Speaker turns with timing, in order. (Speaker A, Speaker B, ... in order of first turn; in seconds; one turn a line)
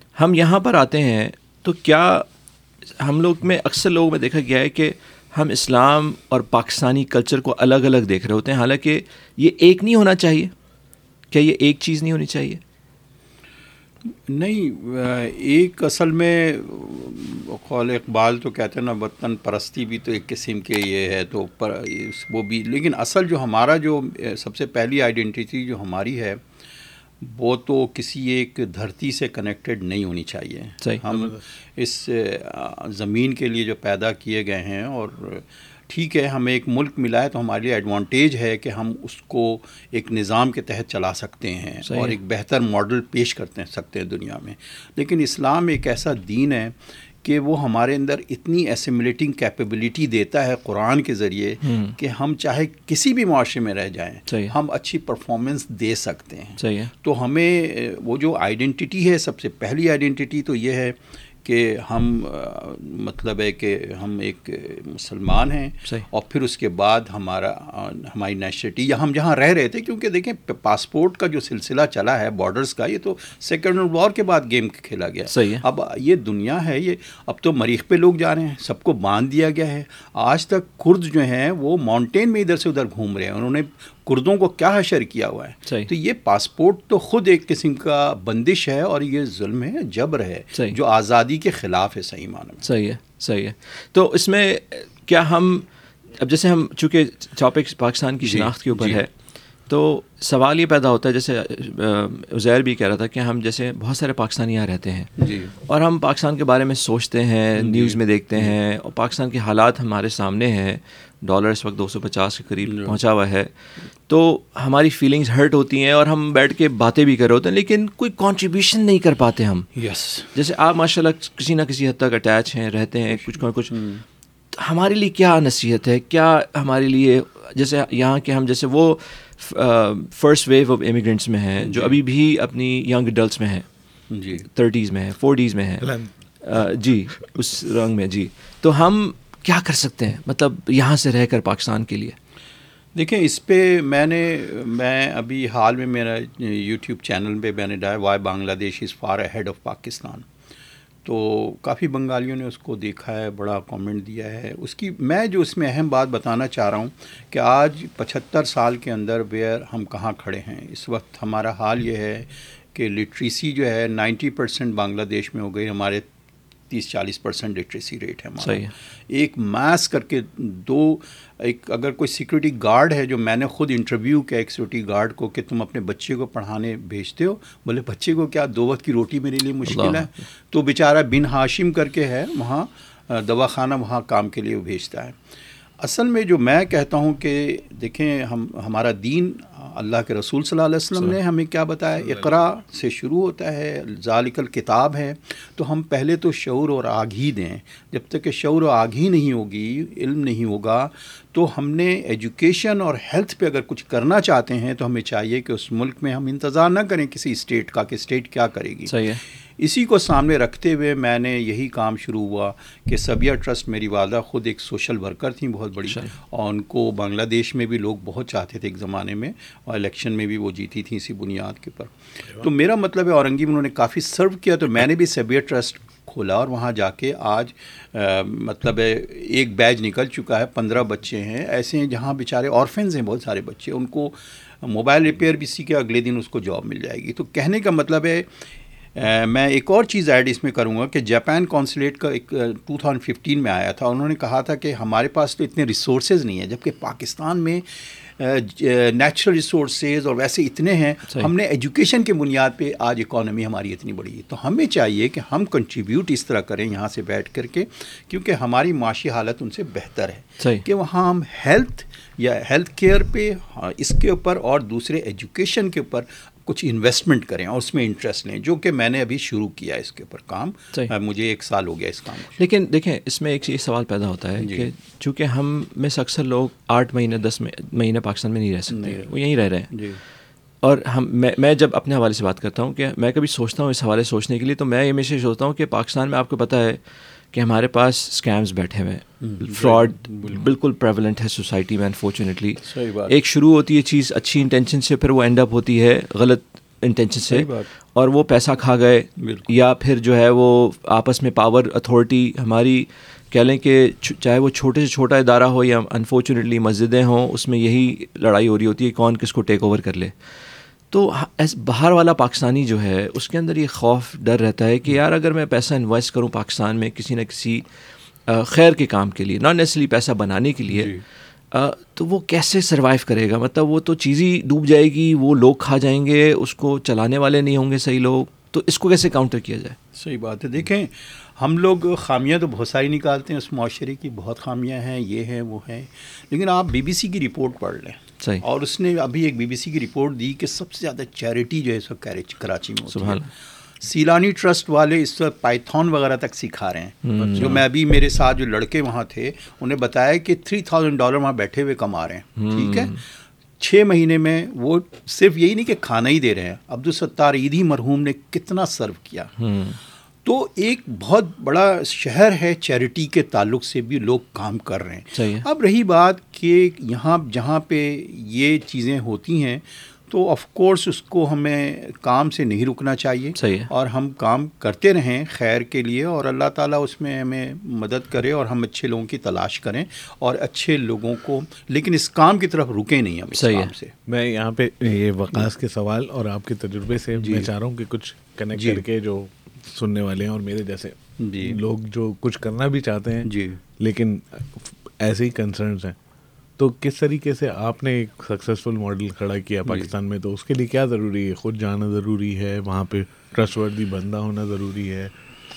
Speaker A: 0.1-2.3
Speaker A: 3.0-10.5
Speaker A: 11.3-12.6
Speaker B: 14.1-26.4
Speaker B: 27.2-92.6
Speaker A: 41.8-42.1
Speaker A: 51.6-52.0
Speaker A: 54.3-54.5
Speaker A: 56.6-56.9
Speaker A: 75.3-75.6
Speaker A: 92.6-95.7
Speaker A: 96.2-99.1
Speaker B: 98.2-99.0
Speaker A: 99.7-113.5
Speaker B: 105.2-105.5
Speaker B: 107.6-108.5
Speaker B: 112.7-113.0
Speaker A: 114.1-119.7
Speaker B: 119.8-120.3
Speaker A: 120.3-123.8
Speaker B: 123.7-124.0
Speaker A: 124.5-133.7
Speaker B: 131.6-132.0
Speaker B: 134.1-134.5
Speaker A: 134.4-142.2
Speaker C: 135.8-136.1
Speaker B: 142.9-150.2
Speaker B: 151.0-166.1
Speaker B: 166.7-185.2
Speaker A: 168.4-168.7
Speaker A: 179.6-180.1
Speaker B: 185.8-238.3
Speaker A: 208.9-209.2
Speaker A: 215.9-216.1
Speaker B: 238.9-272.4
Speaker A: 260.4-260.6
Speaker A: 272.4-279.7
Speaker B: 274.4-274.7
Speaker B: 278.7-279.1
Speaker B: 279.7-280.0
Speaker A: 280.6-286.8
Speaker A: 287.3-310.1
Speaker B: 289.2-290.5
Speaker B: 292.6-293.1
Speaker B: 297.3-297.7
Speaker B: 299.2-299.5
Speaker A: 310.9-317.6
Speaker A: 318.3-320.9
Speaker B: 320.7-321.0
Speaker A: 321.5-329.8
Speaker B: 329.9-343.3
Speaker A: 342.9-343.3
Speaker B: 343.8-353.0
Speaker A: 347.0-347.6
Speaker C: 347.2-347.5
Speaker A: 352.4-353.0
Speaker B: 353.6-359.3
Speaker A: 359.4-359.8
Speaker B: 360.2-383.9
Speaker A: 365.1-365.4
Speaker A: 373.4-373.7
Speaker A: 383.3-383.7
Speaker C: 384.1-396.0
Speaker B: 387.2-387.5
Speaker B: 388.5-388.8
Speaker B: 391.2-391.6
Speaker B: 393.2-393.6
Speaker C: 396.6-405.1
Speaker B: 399.6-399.9